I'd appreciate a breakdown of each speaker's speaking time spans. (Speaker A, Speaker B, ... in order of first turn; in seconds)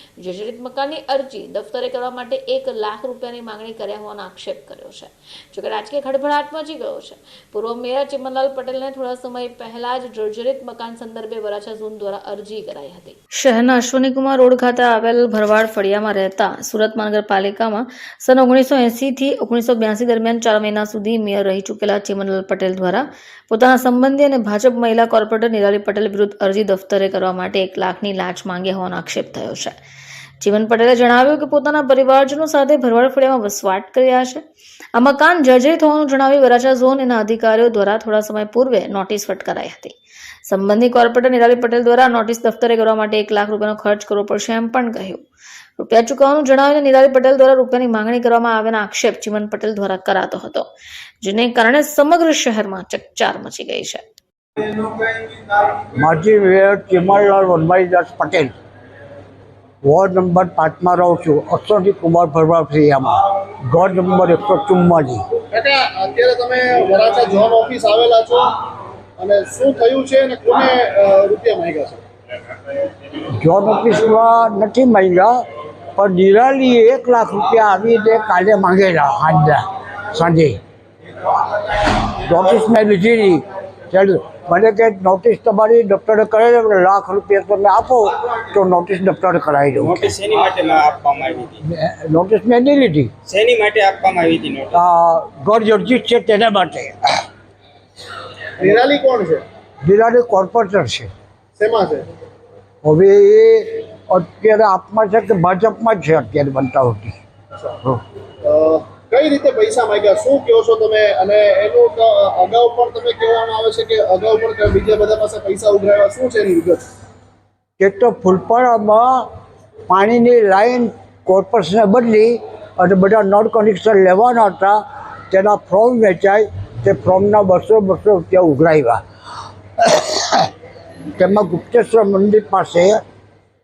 Speaker A: 0.2-29.8, 30.4-34.4, 35.0-40.0, 40.5-45.2, 45.8-50.7, 51.2-54.0
Speaker B: 54.7-55.1, 55.8-58.5, 59.8-65.2, 73.3-75.4, 76.0-80.6, 81.9-90.2, 91.7-93.1, 94.7-97.0, 99.8-101.1, 102.8-107.2, 117.8-119.3, 119.9-129.0, 129.8-130.5, 131.2-133.0
Speaker C: 65.5-68.6, 69.2-72.0, 98.6-99.5, 101.6-102.1, 108.4-116.8
Speaker D: 89.8-91.6, 93.3-94.8